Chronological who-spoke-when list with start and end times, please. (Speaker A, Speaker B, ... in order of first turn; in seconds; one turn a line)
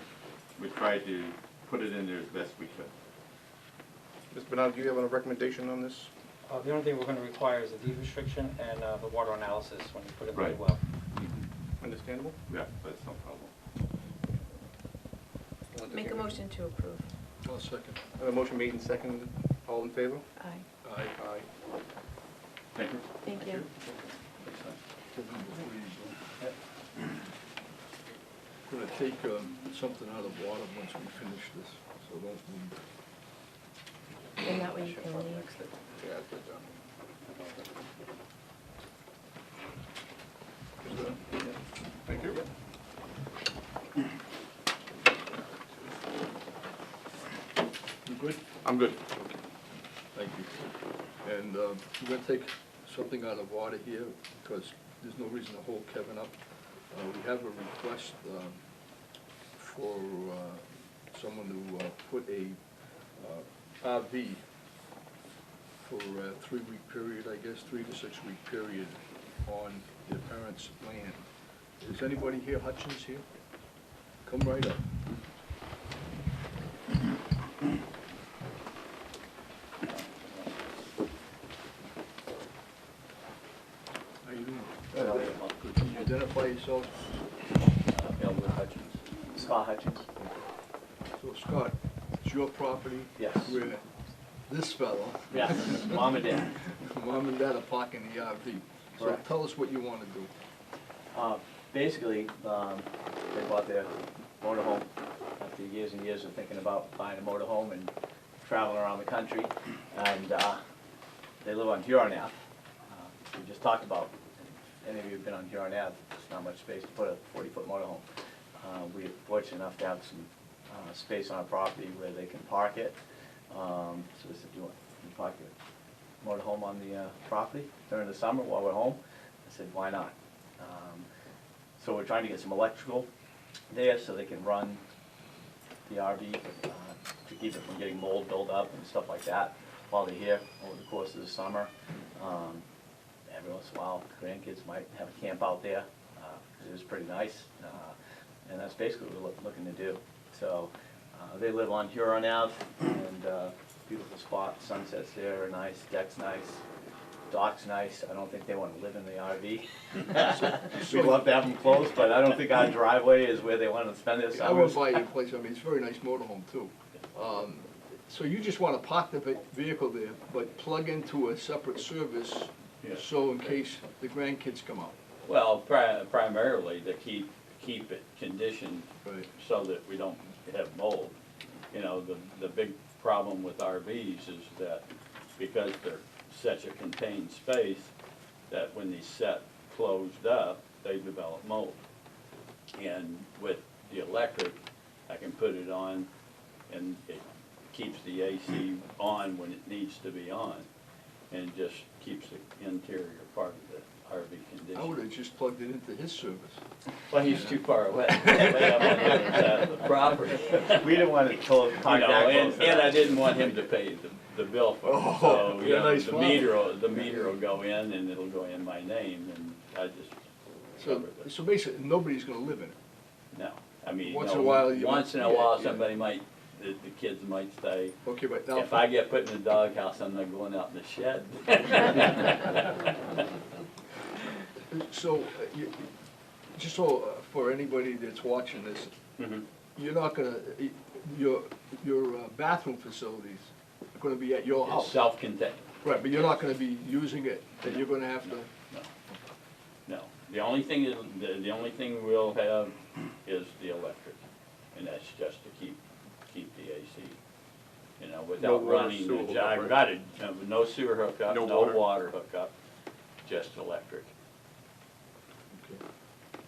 Speaker A: 0.6-2.9
Speaker B: 4.3-6.1
Speaker C: 6.5-10.8
Speaker B: 11.8-12.3
Speaker A: 12.5-13.5
Speaker B: 15.7-16.4
Speaker D: 15.8-17.1
Speaker E: 17.4-18.0
Speaker B: 18.2-20.2
Speaker D: 20.4-20.6
Speaker E: 20.8-21.1
Speaker B: 21.1-21.5
Speaker A: 22.7-23.7
Speaker D: 23.2-23.6
Speaker E: 25.1-26.2
Speaker E: 28.7-32.8
Speaker D: 34.4-35.6
Speaker C: 34.7-35.7
Speaker B: 36.0-36.7
Speaker B: 42.0-42.4
Speaker E: 48.1-48.4
Speaker B: 48.6-49.4
Speaker E: 50.1-50.6
Speaker E: 51.2-56.4
Speaker E: 56.9-58.6
Speaker E: 59.5-62.6
Speaker E: 63.2-64.4
Speaker E: 65.8-71.3
Speaker E: 71.8-73.2
Speaker E: 74.2-74.9
Speaker F: 79.9-80.5
Speaker E: 84.2-87.0
Speaker F: 85.0-86.1
Speaker F: 87.9-89.0
Speaker G: 89.3-90.1
Speaker E: 91.2-93.8
Speaker G: 93.2-93.5
Speaker E: 94.5-96.0
Speaker G: 95.3-96.5
Speaker E: 96.7-100.3
Speaker G: 101.1-104.9
Speaker G: 105.4-110.6
Speaker G: 111.4-112.3
Speaker G: 112.9-118.0
Speaker G: 118.6-123.0
Speaker G: 123.5-125.5
Speaker G: 126.2-131.1
Speaker G: 131.8-133.1
Speaker G: 133.7-134.8
Speaker G: 135.8-142.6
Speaker G: 143.3-147.9
Speaker G: 148.5-156.6
Speaker G: 157.3-164.9
Speaker E: 160.4-161.3
Speaker E: 164.3-174.9
Speaker F: 172.8-173.5
Speaker F: 175.2-181.1
Speaker F: 181.7-184.8
Speaker F: 185.4-187.9
Speaker F: 188.5-191.8
Speaker F: 192.7-196.1
Speaker F: 196.7-200.7
Speaker F: 201.3-205.0
Speaker E: 204.7-206.6
Speaker F: 207.1-220.2
Speaker E: 207.2-207.6
Speaker G: 210.7-213.2
Speaker E: 214.8-217.4
Speaker E: 220.8-222.8
Speaker F: 220.8-221.3
Speaker F: 223.3-228.0
Speaker E: 224.0-225.9
Speaker E: 228.0-228.8
Speaker F: 228.5-233.2
Speaker E: 234.7-235.9
Speaker E: 236.5-238.9
Speaker F: 239.2-239.4
Speaker E: 239.8-245.0
Speaker F: 244.6-245.6
Speaker E: 245.8-248.5
Speaker F: 247.7-248.9
Speaker F: 249.8-254.2
Speaker F: 254.7-257.2
Speaker F: 258.0-262.5
Speaker B: 258.4-259.9
Speaker B: 261.2-262.1
Speaker F: 263.2-264.1
Speaker E: 265.5-265.8